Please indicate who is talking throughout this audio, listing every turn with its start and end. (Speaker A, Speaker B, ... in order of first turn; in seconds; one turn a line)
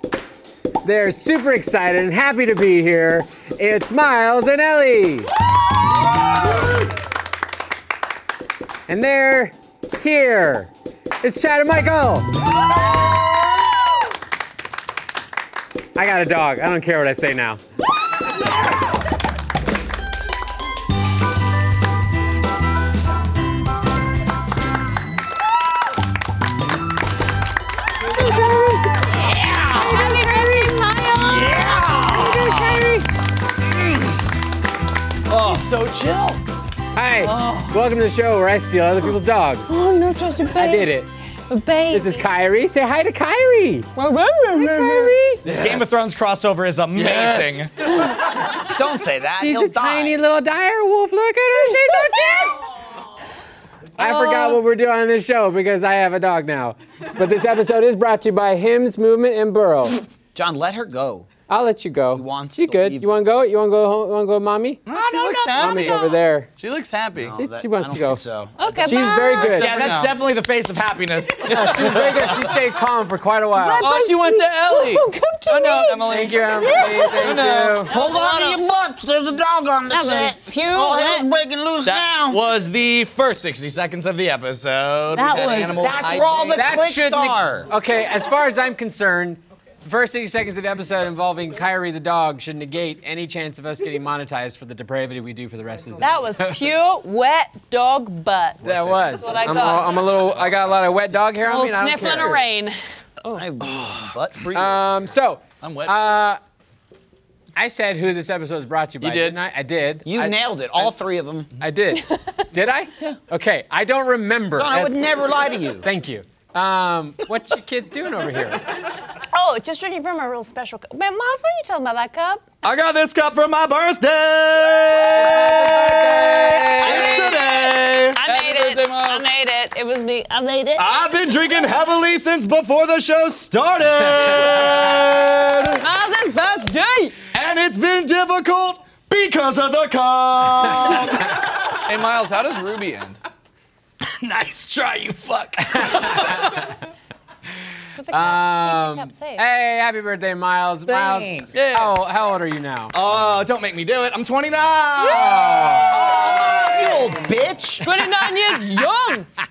Speaker A: 0.8-5.3
Speaker A: 8.9-10.7
Speaker A: 11.2-12.4
Speaker A: 15.9-17.6
Speaker B: 29.1-30.2
Speaker C: 29.9-31.9
Speaker B: 31.1-32.9
Speaker A: 32.1-33.1
Speaker B: 35.3-35.7
Speaker D: 35.3-36.4
Speaker A: 36.9-39.7
Speaker D: 37.2-37.7
Speaker C: 39.7-42.2
Speaker A: 40.5-41.1
Speaker A: 41.9-43.9
Speaker C: 43.9-45.3
Speaker A: 44.7-45.4
Speaker D: 45.4-45.9
Speaker B: 45.4-47.7
Speaker D: 47.0-47.6
Speaker E: 47.0-47.4
Speaker E: 48.5-50.2
Speaker A: 49.4-52.5
Speaker C: 51.5-52.5
Speaker C: 54.0-54.6
Speaker A: 54.0-60.0
Speaker E: 60.3-61.3
Speaker A: 61.5-64.8
Speaker E: 62.1-63.1
Speaker D: 64.8-66.0
Speaker C: 64.9-66.1
Speaker A: 65.5-66.5
Speaker D: 66.6-67.3
Speaker E: 67.2-69.4
Speaker A: 67.4-68.2
Speaker C: 68.6-70.0
Speaker A: 68.8-69.8
Speaker B: 69.5-72.5
Speaker D: 69.8-70.1
Speaker D: 71.4-72.4
Speaker A: 71.5-73.9
Speaker C: 73.6-78.6
Speaker D: 73.8-77.9
Speaker A: 76.1-77.9
Speaker E: 77.9-82.4
Speaker C: 79.9-81.3
Speaker B: 81.8-86.5
Speaker C: 85.1-85.8
Speaker D: 85.2-86.7
Speaker E: 85.5-87.7
Speaker A: 86.5-96.7
Speaker C: 96.0-100.0
Speaker A: 98.6-102.4
Speaker D: 98.6-99.2
Speaker D: 100.1-100.6
Speaker C: 101.4-103.5
Speaker E: 103.3-105.0
Speaker A: 104.5-106.4
Speaker D: 105.6-106.0
Speaker A: 107.5-110.9
Speaker D: 109.0-109.4
Speaker E: 110.0-111.5
Speaker A: 111.6-118.6
Speaker C: 112.0-112.4
Speaker E: 114.5-115.9
Speaker C: 119.1-122.5
Speaker B: 122.6-128.2
Speaker A: 125.0-127.2
Speaker C: 126.8-130.9
Speaker D: 126.8-127.4
Speaker D: 128.2-129.3
Speaker B: 130.8-135.8
Speaker C: 135.8-137.2
Speaker B: 137.3-141.4
Speaker D: 141.8-143.2
Speaker B: 144.1-146.4
Speaker A: 145.6-146.6
Speaker D: 145.8-146.5
Speaker C: 147.9-149.4
Speaker A: 148.1-152.9
Speaker B: 150.9-151.5
Speaker D: 151.5-151.9
Speaker B: 152.9-157.4
Speaker C: 155.0-156.3
Speaker E: 155.4-157.9
Speaker C: 157.8-159.3